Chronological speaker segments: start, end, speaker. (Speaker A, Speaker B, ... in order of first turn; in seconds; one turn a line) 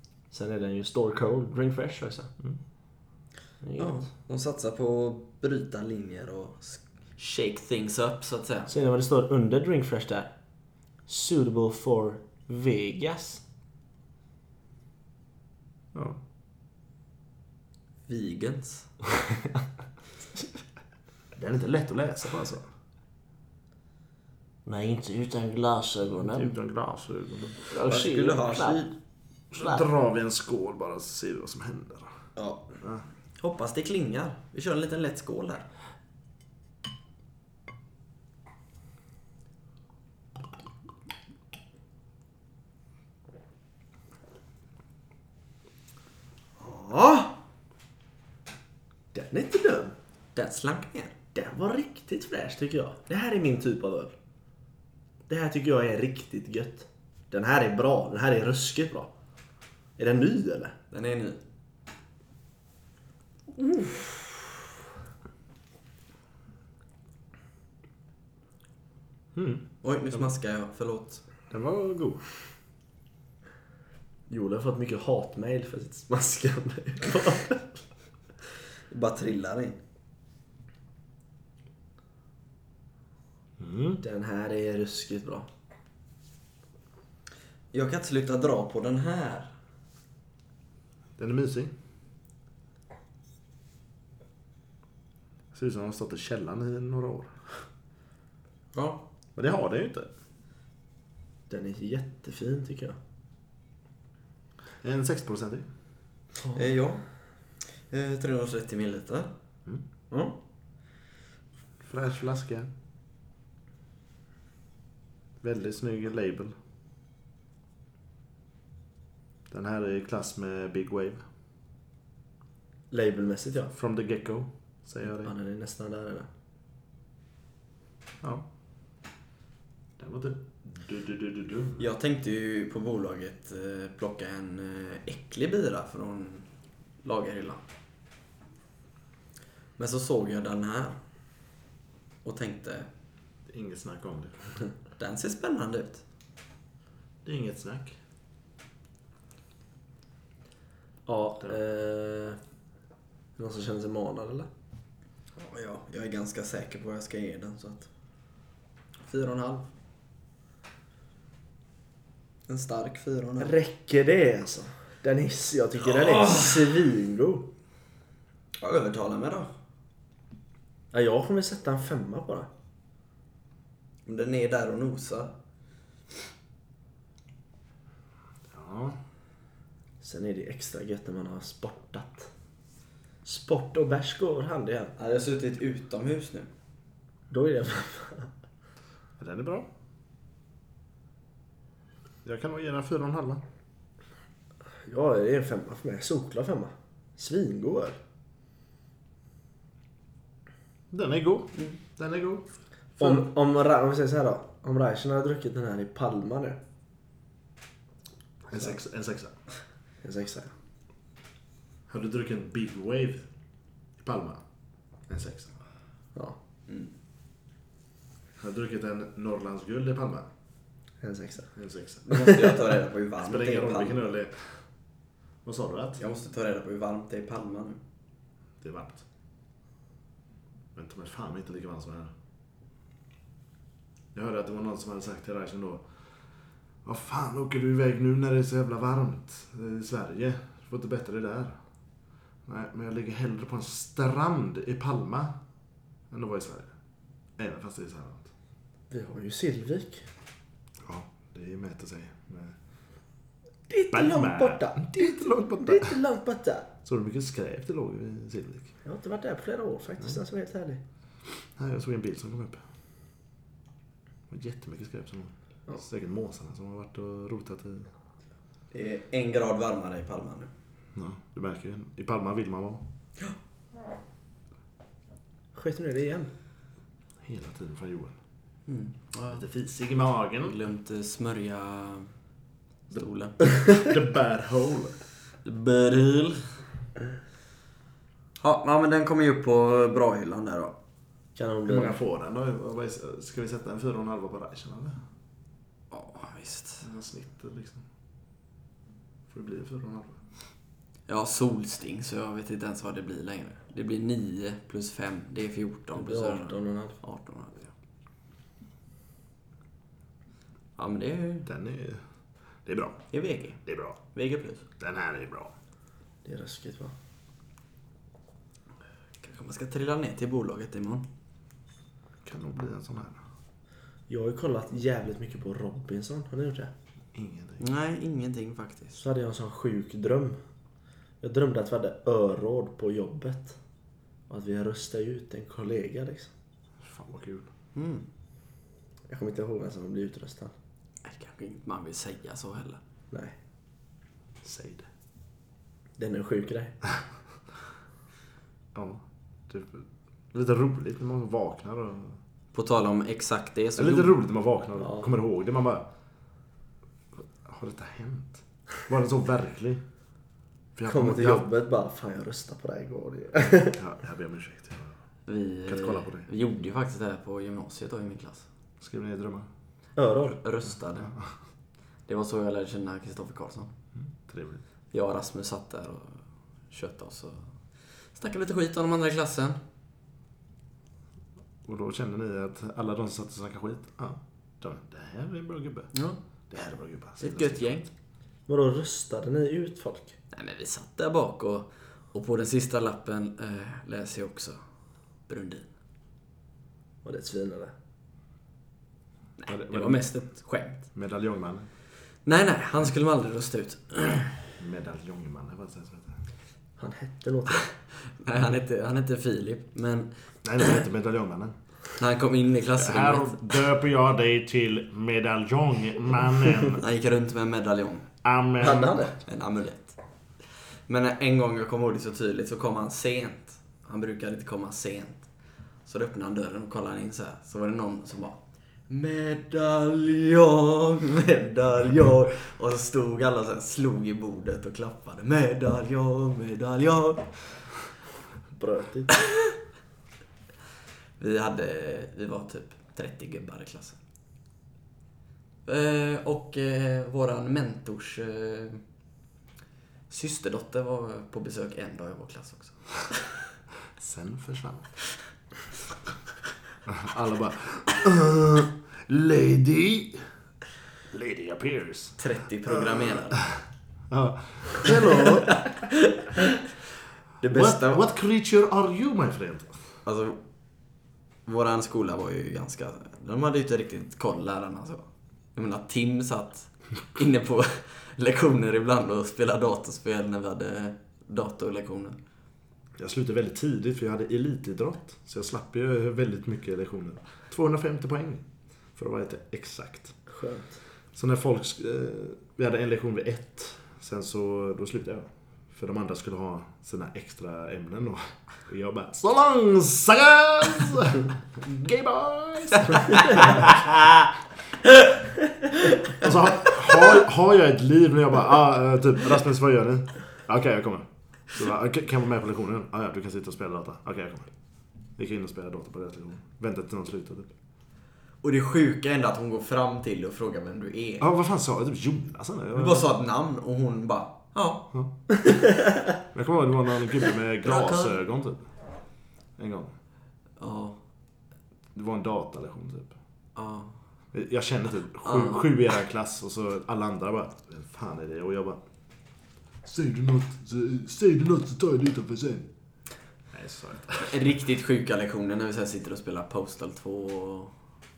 Speaker A: 0.3-2.3
Speaker A: 3.6-4.1
Speaker B: 3.8-8.7
Speaker A: 8.7-10.3
Speaker A: 11.1-13.4
Speaker C: 15.9-16.2
Speaker B: 18.1-18.9
Speaker C: 21.3-22.7
Speaker A: 24.6-26.5
Speaker C: 26.1-27.6
Speaker A: 27.7-28.9
Speaker B: 27.7-28.9
Speaker C: 29.5-32.1
Speaker A: 29.6-29.8
Speaker B: 32.4-32.7
Speaker B: 33.4-35.7
Speaker A: 46.6-47.4
Speaker A: 49.1-50.0
Speaker B: 50.3-51.1
Speaker A: 51.3-54.1
Speaker A: 55.3-59.1
Speaker A: 60.0-60.7
Speaker B: 60.9-61.4
Speaker C: 69.3-70.3
Speaker B: 69.8-71.2
Speaker C: 71.5-72.2
Speaker A: 74.3-77.6
Speaker B: 78.9-79.8
Speaker C: 83.6-84.0
Speaker A: 84.0-85.5
Speaker B: 87.7-89.5
Speaker C: 91.2-91.7
Speaker C: 95.5-97.4
Speaker B: 98.7-99.0
Speaker C: 99.3-100.1
Speaker A: 101.5-103.0
Speaker C: 104.8-105.7
Speaker B: 106.5-107.0
Speaker B: 107.6-109.3
Speaker A: 110.1-110.3
Speaker C: 111.8-112.7
Speaker C: 115.4-116.5
Speaker C: 119.5-121.2
Speaker A: 122.9-123.7
Speaker C: 123.7-125.3
Speaker A: 125.2-126.3
Speaker C: 130.0-131.9
Speaker B: 131.8-136.5
Speaker B: 137.0-137.6
Speaker B: 139.8-141.0
Speaker B: 142.2-142.9
Speaker C: 143.5-144.4
Speaker B: 145.0-146.0
Speaker C: 147.2-148.0
Speaker A: 151.1-152.4
Speaker A: 153.4-154.5
Speaker B: 155.3-157.9
Speaker B: 159.0-159.7
Speaker B: 162.5-163.6
Speaker A: 163.4-167.5
Speaker B: 165.9-166.6
Speaker B: 168.6-169.5
Speaker A: 170.9-172.5
Speaker B: 174.1-175.3
Speaker C: 178.5-179.0
Speaker A: 180.0-182.3
Speaker A: 183.2-184.9
Speaker B: 185.0-186.5
Speaker A: 187.3-188.3
Speaker C: 189.2-189.7
Speaker C: 192.2-193.4
Speaker A: 194.8-198.0
Speaker C: 200.9-203.3
Speaker A: 203.0-206.6
Speaker C: 208.5-209.3
Speaker A: 210.0-210.5
Speaker C: 211.9-213.3
Speaker C: 214.0-214.4
Speaker C: 215.1-215.5
Speaker C: 218.4-220.3
Speaker A: 221.0-221.5
Speaker C: 221.6-222.1
Speaker B: 222.1-224.0
Speaker A: 222.1-222.6
Speaker C: 223.2-224.6
Speaker C: 225.4-226.0
Speaker B: 226.0-227.8
Speaker C: 228.6-229.0
Speaker C: 230.7-232.1
Speaker C: 234.1-235.8
Speaker C: 236.8-241.6
Speaker C: 242.4-245.3
Speaker C: 246.1-246.7
Speaker C: 247.4-248.3
Speaker A: 248.9-250.0
Speaker C: 250.8-252.5
Speaker A: 253.7-256.7
Speaker C: 253.9-256.0
Speaker C: 256.8-258.7
Speaker A: 258.8-260.8
Speaker C: 261.6-262.6
Speaker C: 264.3-267.9
Speaker B: 268.7-270.5
Speaker C: 270.9-272.8
Speaker A: 275.5-276.3
Speaker C: 277.2-278.1
Speaker B: 278.7-279.4
Speaker C: 279.3-280.6
Speaker B: 280.4-282.1
Speaker B: 282.9-283.4
Speaker C: 283.6-285.0
Speaker B: 285.4-286.5
Speaker B: 288.4-290.8
Speaker A: 291.4-292.0
Speaker C: 291.7-295.0
Speaker B: 295.9-296.8
Speaker C: 296.8-297.8
Speaker C: 299.3-300.2
Speaker B: 301.1-307.7
Speaker A: 305.9-307.0
Speaker B: 310.8-311.5
Speaker C: 311.4-312.0
Speaker C: 312.6-313.0
Speaker B: 313.1-314.6
Speaker C: 313.6-314.0
Speaker C: 314.8-315.5
Speaker A: 316.2-316.9
Speaker B: 319.2-321.1
Speaker C: 322.2-323.2
Speaker A: 324.1-326.7
Speaker C: 327.1-327.6
Speaker B: 327.6-329.0
Speaker A: 328.9-330.4
Speaker A: 331.2-333.6
Speaker A: 334.3-336.3
Speaker C: 336.8-337.5
Speaker B: 337.7-338.0
Speaker A: 339.1-340.5
Speaker B: 341.0-342.8
Speaker C: 344.4-344.9
Speaker A: 346.0-346.7
Speaker C: 348.7-352.2
Speaker B: 352.5-354.1
Speaker C: 353.8-355.9
Speaker A: 354.8-355.1
Speaker C: 357.2-359.8
Speaker C: 360.8-361.5
Speaker A: 360.8-363.8
Speaker C: 363.7-364.9
Speaker B: 365.3-368.4
Speaker C: 365.6-366.3
Speaker C: 368.8-369.5
Speaker A: 369.9-370.4
Speaker B: 370.4-371.1
Speaker B: 372.1-373.7
Speaker C: 373.9-374.6
Speaker B: 374.9-377.5
Speaker B: 378.1-379.6
Speaker C: 381.6-385.9
Speaker B: 385.9-386.2
Speaker C: 386.5-387.9
Speaker B: 387.2-387.9
Speaker A: 388.5-390.1
Speaker B: 390.3-394.6
Speaker B: 395.3-395.7
Speaker A: 397.0-397.7
Speaker B: 399.4-400.9
Speaker C: 399.5-400.1
Speaker C: 400.9-401.7
Speaker B: 402.2-404.3
Speaker C: 404.6-406.2
Speaker A: 406.8-407.6
Speaker B: 408.2-410.8
Speaker C: 410.4-411.5
Speaker B: 412.0-413.4
Speaker C: 412.8-416.8
Speaker B: 416.7-418.1
Speaker C: 418.2-419.1
Speaker A: 418.6-419.2
Speaker B: 419.2-425.2
Speaker B: 425.8-428.4
Speaker B: 428.9-437.8
Speaker A: 438.6-439.1
Speaker B: 439.2-439.5
Speaker B: 441.2-444.0
Speaker B: 445.6-448.8
Speaker B: 450.1-453.2
Speaker C: 454.0-454.9
Speaker C: 456.9-460.2
Speaker C: 461.1-462.1
Speaker B: 462.2-463.4
Speaker C: 462.7-463.6
Speaker C: 464.1-465.6
Speaker B: 465.2-466.4
Speaker B: 467.4-468.0
Speaker C: 467.5-469.9
Speaker B: 470.0-470.4
Speaker B: 471.4-482.2
Speaker C: 483.0-488.4
Speaker C: 489.0-490.1
Speaker A: 490.3-490.8
Speaker C: 491.1-503.9
Speaker B: 503.2-503.6
Speaker C: 506.1-514.5
Speaker C: 515.2-517.5
Speaker B: 518.4-521.3
Speaker C: 521.2-523.1
Speaker B: 522.7-524.9
Speaker C: 526.3-528.6
Speaker B: 527.6-528.1
Speaker C: 529.6-529.9
Speaker B: 530.6-531.0
Speaker C: 531.9-533.1
Speaker B: 533.5-533.9
Speaker C: 534.3-538.8
Speaker B: 535.2-535.7
Speaker C: 539.8-542.7
Speaker C: 543.5-544.4
Speaker B: 544.2-547.7